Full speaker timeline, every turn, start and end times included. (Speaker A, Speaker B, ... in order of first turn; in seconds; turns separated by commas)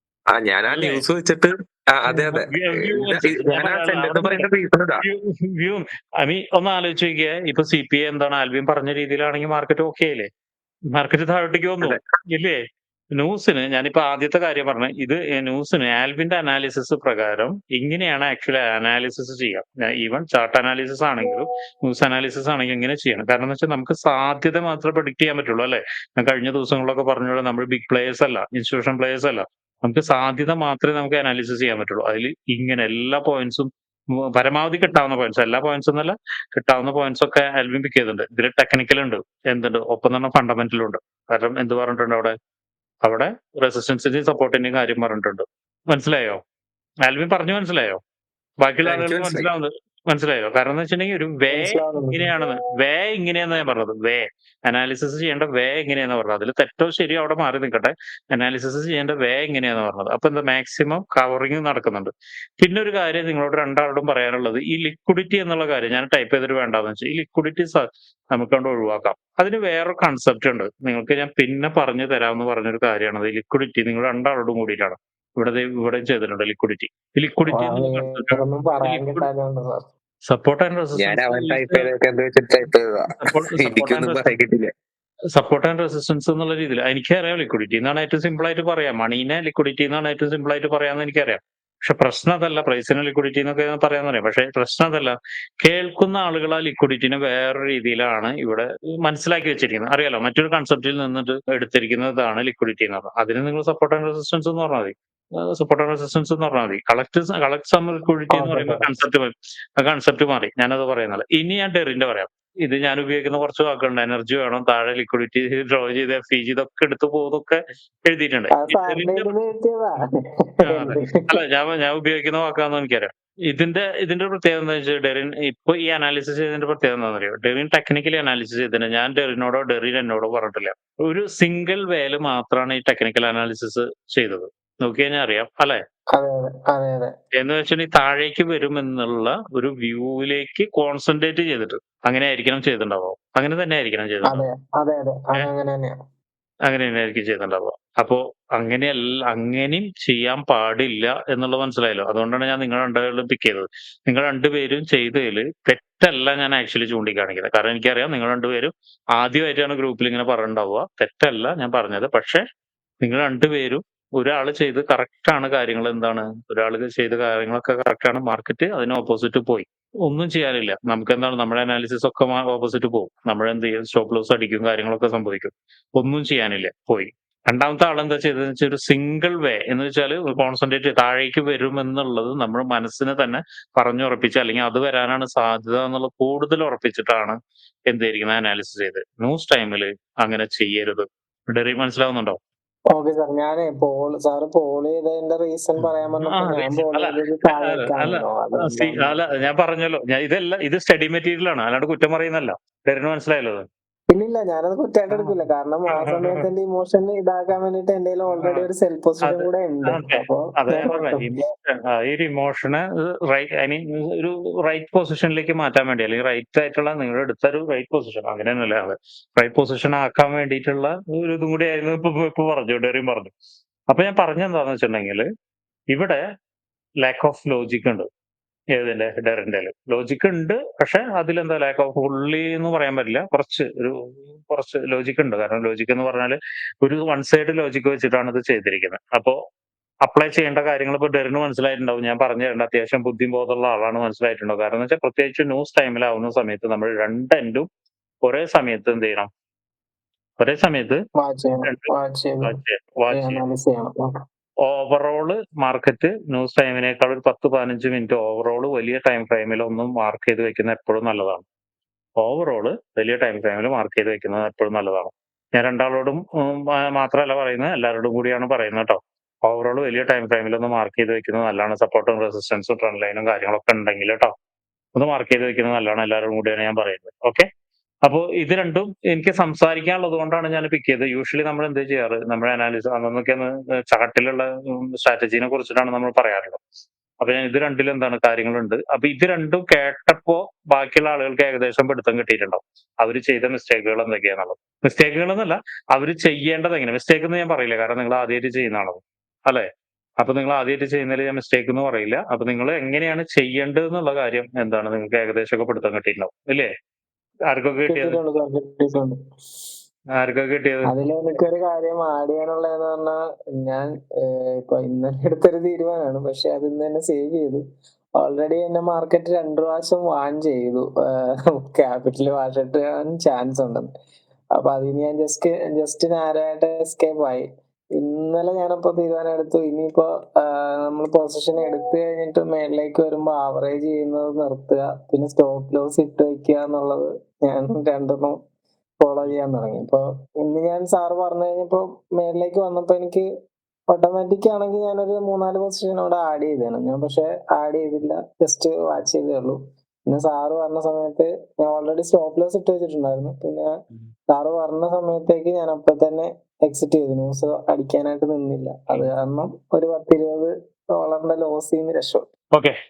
Speaker A: 0.3-5.0, Speaker B: 0.7-1.0, Speaker B: 2.1-4.5, Speaker B: 5.0-10.3, Speaker B: 10.9-12.6, Speaker B: 13.1-42.3, Speaker B: 43.0-46.4, Speaker B: 47.0-48.0, Speaker B: 48.6-79.3, Speaker A: 48.8-49.5, Speaker C: 51.5-52.3, Speaker C: 77.5-79.8, Speaker B: 80.2-81.9, Speaker A: 81.0-84.7, Speaker B: 83.2-84.3, Speaker B: 85.3-119.3, Speaker C: 108.3-109.0, Speaker C: 118.5-121.3, Speaker B: 120.6-135.8, Speaker C: 136.1-137.1, Speaker B: 137.3-144.4, Speaker C: 144.2-145.9, Speaker B: 146.7-162.4, Speaker B: 163.0-187.4, Speaker B: 187.9-192.4, Speaker C: 192.9-199.2, Speaker B: 195.8-203.7, Speaker C: 204.1-211.4, Speaker B: 205.1-206.4, Speaker B: 208.3-208.7, Speaker B: 209.2-223.3, Speaker B: 223.9-225.2, Speaker B: 225.9-226.2, Speaker B: 227.0-228.1, Speaker B: 228.7-239.4, Speaker B: 240.0-247.7, Speaker B: 248.2-249.3, Speaker B: 250.4-251.0, Speaker C: 251.2-252.6, Speaker B: 251.6-251.9, Speaker B: 252.4-253.4, Speaker C: 253.1-254.2, Speaker B: 254.6-261.4, Speaker B: 262.2-274.3, Speaker B: 274.9-277.4, Speaker B: 278.0-286.6, Speaker B: 287.2-299.6, Speaker B: 300.2-306.7, Speaker B: 307.5-308.2, Speaker C: 307.9-309.1, Speaker B: 310.2-310.9, Speaker C: 310.8-317.6, Speaker C: 318.2-323.9, Speaker C: 324.5-338.4, Speaker C: 339.0-343.2, Speaker C: 343.9-353.7, Speaker C: 354.3-362.3